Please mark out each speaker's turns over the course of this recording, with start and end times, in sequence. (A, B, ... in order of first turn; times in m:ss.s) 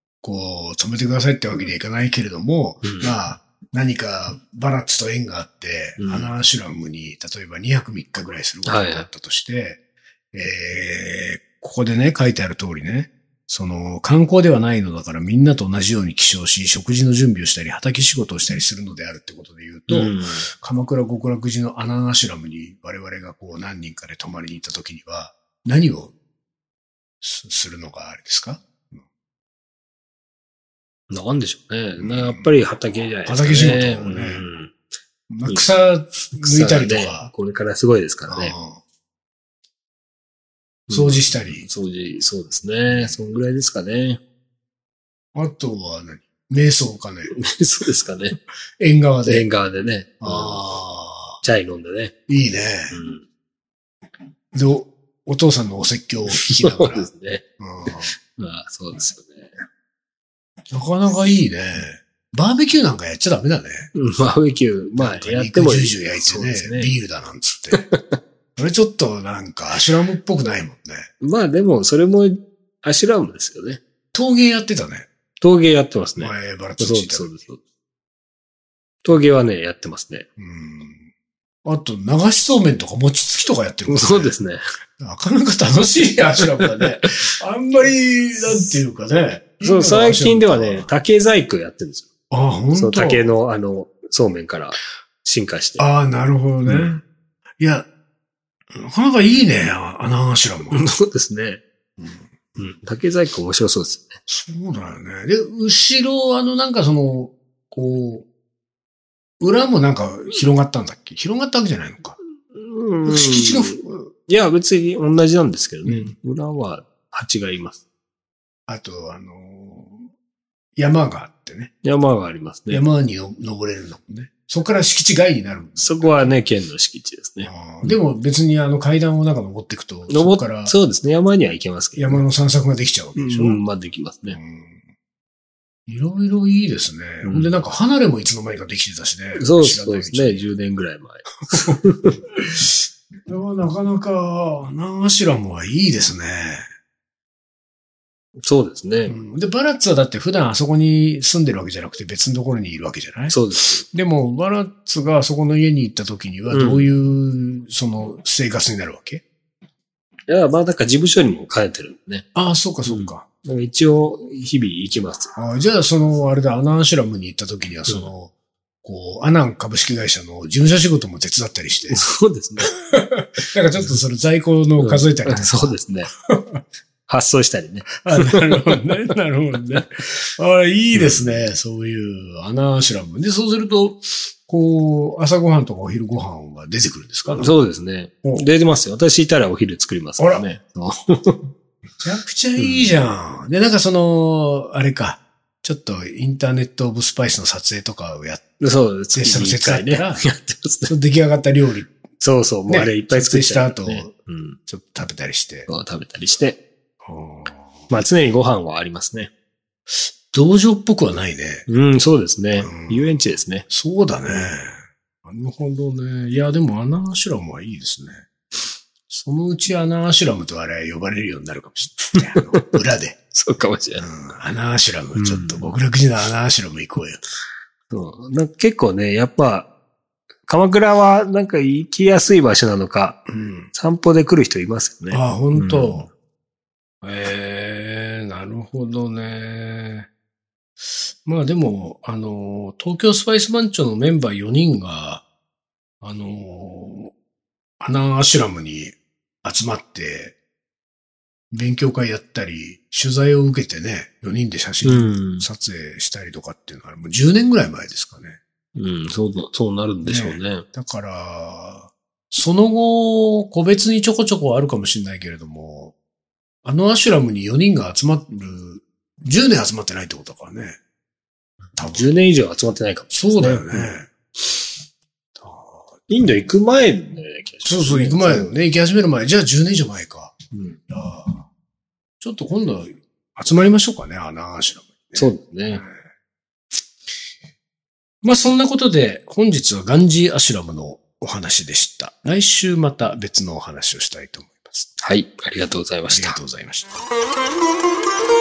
0:00.2-0:09.8 A
0:02.8-0:03.2 B
0:06.0-0:06.3 B
0:08.6-0:09.1 B
0:10.3-0:26.1 A
0:19.9-0:20.4 B
0:27.2-0:29.0 A
0:31.1-0:34.8 B
0:32.0-0:32.5 A
0:33.2-0:34.4 A
0:35.3-0:37.3 A
0:36.3-0:38.5 B
0:38.3-0:38.8 A
0:40.9-0:44.2 B
0:40.9-0:41.7 A
0:45.3-0:47.3 A
0:47.4-0:48.4 B
0:48.8-0:49.5 A
0:49.2-0:50.6 B
0:50.2-0:51.4 A
0:51.4-0:52.1 B
0:52.3-0:53.0 A
0:52.9-0:53.2 B
0:54.5-0:58.1 A
0:56.4-0:57.4 B
0:58.0-0:59.6 B
1:00.7-1:03.9 A
1:03.9-1:06.9 B
1:05.0-1:07.8 A
1:07.7-1:08.2 B
1:08.6-1:11.1 A
1:11.2-1:13.8 B
1:14.1-1:15.1 A
1:15.4-1:17.6 B
1:16.2-1:17.4 A
1:19.0-1:20.3 B
1:20.4-1:21.1 A
1:21.6-1:24.4 A
1:23.9-1:24.6 B
1:25.0-1:30.9 A
1:26.4-1:26.8 B
1:28.4-1:28.8 B
1:29.6-1:32.1 B
1:32.3-1:33.3 A
1:32.7-1:35.8 B
1:35.8-1:37.0 A
1:36.6-1:37.0 B
1:37.6-1:37.9 A
1:38.7-1:40.9 A
1:40.7-1:41.6 B
1:42.0-1:42.3 A
1:42.6-1:44.1 B
1:44.3-1:48.3 A
1:49.4-1:52.2 A
1:52.5-1:57.8 B
1:53.0-1:54.1 A
1:55.8-1:56.1 A
1:58.7-2:00.0 A
2:00.8-2:01.7 A
2:01.8-2:02.8 B
2:02.7-2:06.4 A
2:05.8-2:08.0 B
2:07.4-2:10.8 A
2:10.1-2:12.3 B
2:12.0-2:13.6 A
2:13.2-2:14.4 B
2:14.2-2:14.8 A
2:15.9-2:20.5 A
2:17.2-2:17.6 B
2:19.4-2:22.2 B
2:23.2-2:26.6 A
2:28.4-2:29.1 B
2:29.0-2:39.2 A
2:33.3-2:33.8 B
2:36.5-2:36.9 B
2:40.3-2:42.2 B
2:42.3-2:43.2 A
2:42.8-2:45.3 B
2:45.4-2:48.3 A
2:48.8-2:52.0 A
2:51.9-2:52.7 B
2:52.7-2:55.8 A
2:54.8-2:56.1 B
2:56.3-2:56.6 A
2:57.1-2:58.8 B
2:58.0-3:07.5 A
3:00.9-3:01.4 B
3:07.3-3:11.4 B
3:10.2-3:10.4 A
3:12.0-3:18.4 A
3:12.6-3:12.9 B
3:18.6-3:20.9 B
3:19.1-3:20.3 A
3:20.9-3:21.9 A
3:22.2-3:24.6 B
3:22.7-3:24.1 A
3:24.7-3:25.7 A
3:25.7-3:26.6 B
3:27.0-3:27.9 A
3:27.9-3:29.3 B
3:30.3-3:31.7 A
3:31.7-3:33.6 B
3:32.6-3:38.3 A
3:39.1-3:43.2 A
3:43.3-3:44.0 B
3:44.0-3:47.2 A
3:45.2-3:45.7 B
3:47.9-3:49.7 B
3:50.5-3:53.2 B
3:53.3-3:53.7 A
3:53.7-3:56.1 B
3:55.1-3:56.1 A
3:57.0-4:00.1 A
4:01.2-4:05.2 A
4:06.0-4:07.1 A
4:07.8-4:10.4 A
4:11.5-4:18.4 A
4:14.8-4:15.4 B
4:18.8-4:20.6 B
4:20.0-4:26.0 A
4:26.6-4:30.8 A
4:31.8-4:32.1 A
4:31.9-4:33.9 B
4:33.1-4:34.1 A
4:35.4-4:36.3 A
4:36.1-4:38.5 B
4:37.6-4:40.3 A
4:40.5-4:40.8 B
4:40.9-4:41.5 A
4:42.2-4:46.0 A
4:45.2-4:45.8 B
4:48.2-4:54.9 A
4:55.0-4:56.4 B
4:56.1-4:57.0 A